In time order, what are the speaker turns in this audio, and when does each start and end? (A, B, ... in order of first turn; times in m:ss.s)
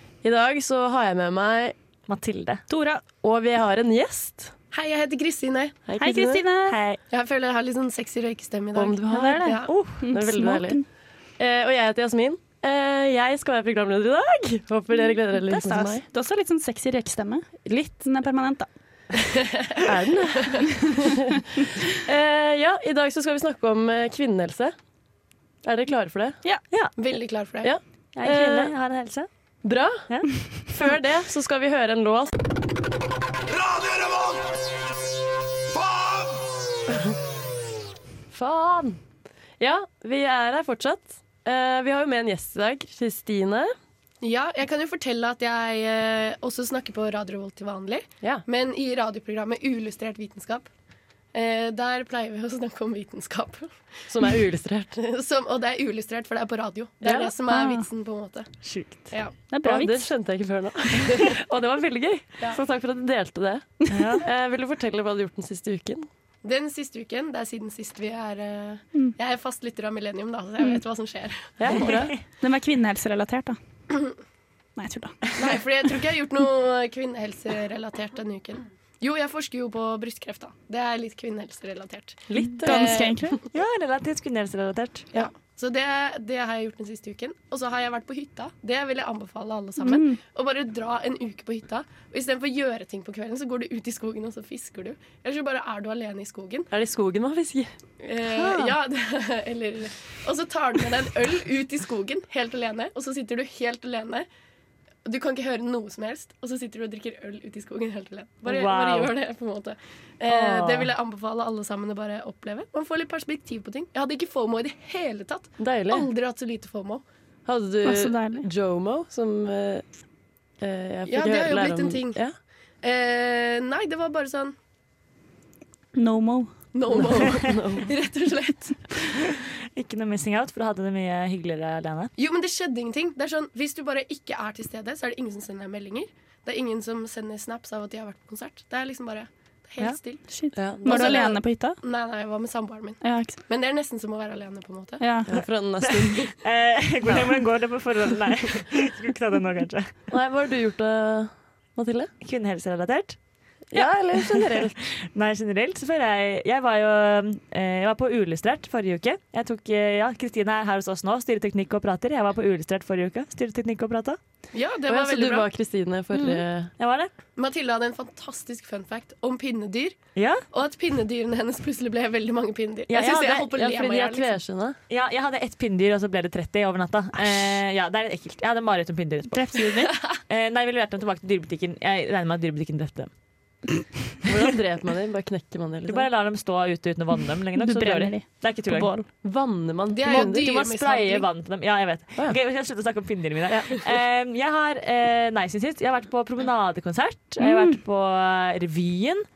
0:00.2-0:01.8 A
0:02.1-0:02.6 B
0:02.7-0:03.0 C
0:03.2-0:04.5 A
0:04.7-0:05.8 D
0:05.9-0:06.4 A
0:06.0-0:06.8 C
0:06.7-0:07.0 B
0:07.1-0:09.7 D
0:08.8-0:10.8 A
0:09.1-0:10.8 C
0:09.7-0:10.0 B
0:11.4-0:16.0 A
0:15.4-0:18.7 C
0:19.5-0:19.8 D
0:19.8-0:24.8 A
0:25.6-0:26.4 A
0:27.0-0:27.7 D
0:27.6-0:28.7 A
0:28.2-0:29.3 B
0:29.6-0:30.1 A
0:30.7-0:32.4 A
0:38.3-0:39.0 A
0:39.6-0:43.7 A
0:44.2-0:50.7 D
0:51.3-0:53.7 D
0:54.1-0:55.1 A
0:55.1-0:58.5 D
0:57.0-0:57.3 A
0:57.5-0:57.8 C
0:58.6-0:59.1 B
0:59.5-1:00.1 C
0:59.6-1:06.1 A
1:03.9-1:04.3 B
1:06.4-1:11.9 D
1:11.6-1:12.2 A
1:12.4-1:13.6 C
1:14.8-1:15.5 C
1:15.4-1:23.1 D
1:22.3-1:23.4 A
1:22.4-1:23.4 C
1:23.5-1:25.1 B
1:25.1-1:36.7 D
1:29.8-1:30.2 C
1:36.7-1:37.7 A
1:38.0-1:44.3 D
1:38.4-1:38.7 B
1:45.1-1:57.0 D
1:48.4-1:49.1 B
1:50.3-1:50.9 B
1:55.6-1:56.1 A
1:57.5-1:59.8 A
1:57.8-1:58.5 C
2:00.6-2:02.4 A
2:01.1-2:02.2 D
2:02.8-2:04.6 D
2:06.0-2:06.5 C
2:06.7-2:08.8 D
2:06.9-2:07.9 A
2:09.8-2:12.1 B
2:12.2-2:20.2 D
2:20.3-2:21.8 C
2:20.6-2:21.3 A
2:20.8-2:25.0 D
2:23.0-2:23.4 C
2:25.0-2:25.4 C
2:25.3-2:26.4 A
2:25.8-2:30.0 B
2:30.1-2:32.1 A
2:32.2-2:33.2 B
2:33.7-2:34.8 A
2:33.8-2:44.2 B
2:44.5-2:45.5 D
2:44.9-2:46.7 A
2:46.1-2:47.1 B
2:47.4-2:50.0 D
2:50.2-2:50.4 B
2:50.5-2:54.4 D
2:52.9-2:53.2 B
2:52.9-2:54.8 A
2:54.9-3:03.1 B
2:57.2-2:57.5 A
2:59.3-3:00.0 C
3:04.3-3:04.6 B
3:04.3-3:06.1 A
3:05.9-3:08.9 B
3:07.6-3:09.1 C
3:09.2-3:10.7 A
3:09.9-3:11.2 D
3:10.1-3:19.2 B
3:17.4-3:17.8 C